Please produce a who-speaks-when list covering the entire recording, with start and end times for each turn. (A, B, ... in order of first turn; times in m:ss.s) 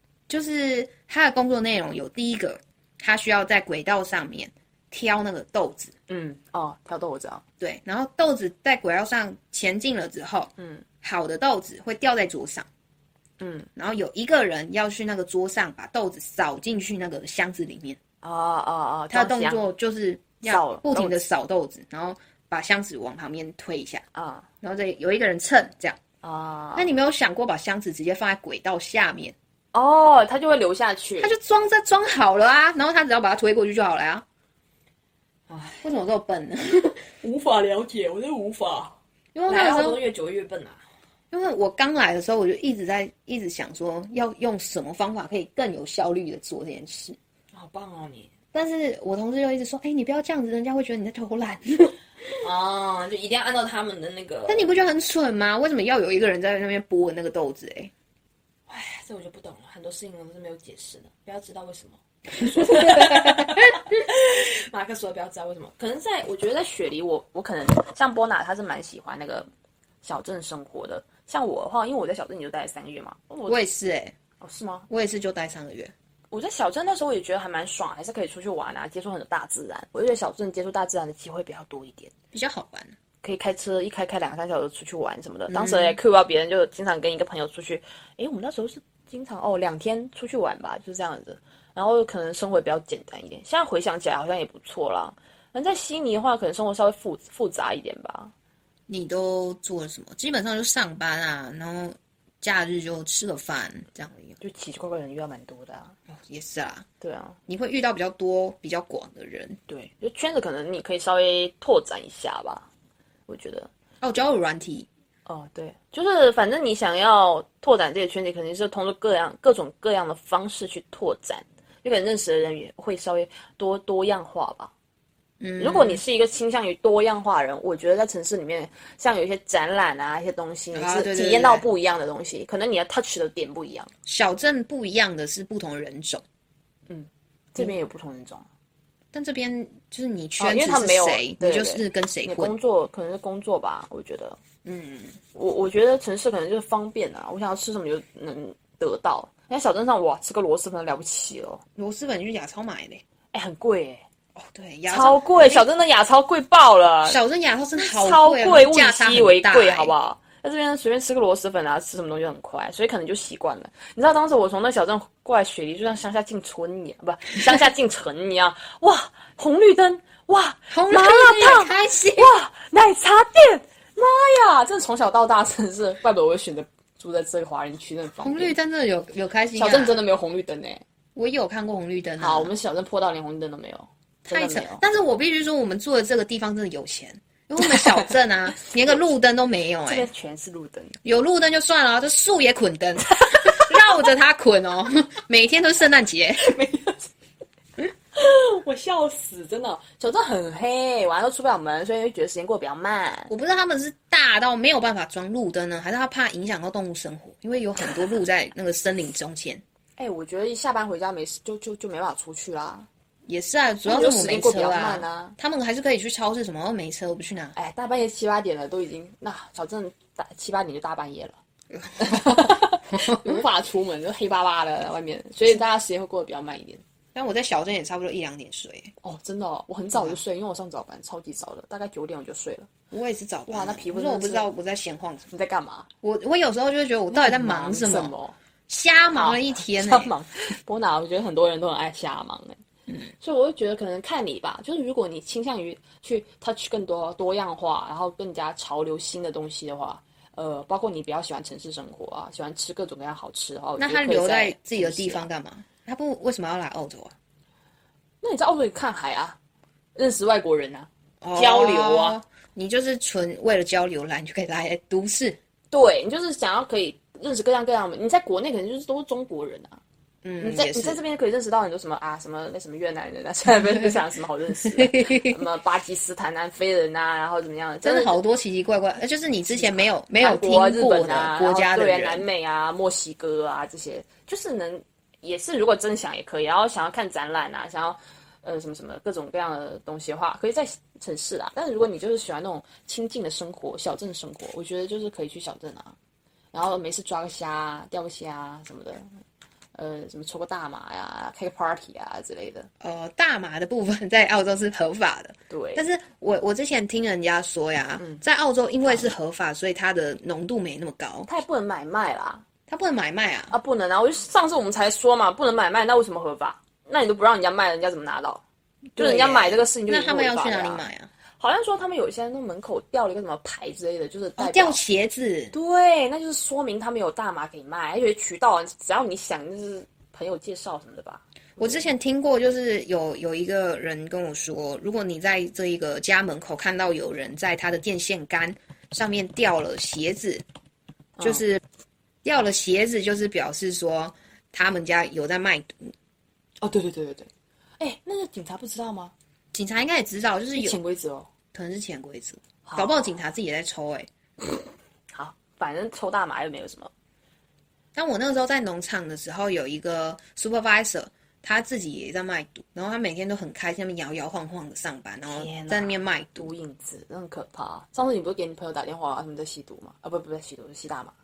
0:00.3-0:05.9 A
0:06.1-0:07.4 B
0:07.6-0:12.7 A
0:10.6-0:10.8 B
0:13.4-0:13.7 B
0:13.8-0:18.0 A
0:18.2-0:19.6 B
0:19.1-0:24.0 A
0:20.4-0:21.2 B
0:24.1-0:24.5 B
0:24.6-0:26.0 A
0:26.2-0:26.9 B
0:26.8-0:29.4 A
0:29.7-0:31.3 B
0:31.2-0:34.2 A
0:35.5-0:35.8 B
0:35.8-0:37.0 A
0:37.2-0:40.8 B
0:39.3-0:40.0 A
0:41.3-0:47.2 A
0:47.5-0:48.3 B
0:48.5-0:52.0 A
0:52.4-0:54.7 B
0:54.5-0:57.9 A
0:58.7-1:09.5 B
1:02.6-1:03.6 A
1:10.0-1:13.6 B
1:13.5-1:14.1 A
1:14.4-1:14.9 B
1:14.9-1:15.9 A
1:16.3-1:22.1 B
1:22.3-1:22.9 A
1:23.2-1:38.3 B
1:25.5-1:26.0 A
1:38.9-1:44.4 A
1:44.4-1:45.9 B
1:46.1-1:46.8 A
1:47.0-1:47.4 B
1:47.5-1:49.6 A
1:49.7-1:52.7 B
1:53.3-1:53.7 B
1:54.0-1:54.9 A
1:55.2-2:04.7 B
2:05.4-2:06.0 A
2:05.6-2:13.9 B
2:10.7-2:11.6 A
2:14.0-2:16.2 A
2:16.9-2:18.5 B
2:19.1-2:22.5 A
2:20.4-2:24.4 B
2:24.6-2:25.2 A
2:25.3-2:31.6 B
2:31.8-2:33.0 A
2:33.3-2:34.0 B
2:34.4-2:35.6 A
2:34.9-2:37.2 B
2:37.0-2:39.9 A
2:37.8-2:58.6 B
2:50.7-2:52.3 A
2:58.2-3:00.0 A
2:59.5-3:00.8 B
3:01.2-3:02.5 A
3:02.2-3:04.8 B
3:04.2-3:10.1 A
3:07.6-3:08.1 B
3:09.8-3:11.0 B
3:11.0-3:16.4 A
3:13.2-3:13.8 B
3:16.4-3:17.1 B
3:18.1-3:23.3 B
3:23.3-3:29.6 A
3:30.0-3:32.9 B
3:33.3-3:37.5 A
3:33.8-3:35.4 B
3:37.5-3:41.4 B
3:41.7-3:43.4 A
3:42.0-3:46.8 B
3:47.1-3:48.9 A
3:49.0-3:52.7 B
3:49.9-3:50.2 A
3:52.9-3:55.3 A
3:53.5-3:54.5 B
3:55.3-3:55.9 B
3:56.0-3:58.1 A
3:57.1-3:58.4 B
3:58.7-4:00.1 A
3:59.1-4:02.6 B
4:03.2-4:15.2 B
4:13.8-4:17.1 A
4:18.2-4:19.4 B
4:19.9-4:22.2 B
4:21.2-4:25.4 A
4:25.7-4:29.8 B
4:30.2-4:31.0 A
4:30.4-4:38.2 B
4:34.7-4:35.4 A
4:37.8-4:42.2 A
4:39.5-4:56.0 B
4:56.5-4:59.0 B
4:59.7-5:02.7 B
5:02.8-5:11.3 A
5:05.5-5:05.8 B
5:11.3-5:12.4 B
5:12.7-5:13.5 A
5:13.5-5:18.4 B
5:18.9-5:21.1 A
5:19.0-5:20.8 B
5:21.4-5:24.8 B
5:24.4-5:25.5 A
5:25.5-5:31.9 B
5:31.6-5:40.4 A
5:41.2-5:41.6 A
5:42.2-5:45.9 A
5:46.6-5:47.3 B
5:47.8-5:49.1 B
5:49.5-5:50.8 A
5:50.6-5:51.3 B
5:51.5-5:54.1 A
5:52.6-5:53.1 B
5:55.1-5:56.9 B
5:57.9-6:06.5 A
6:05.3-6:11.1 B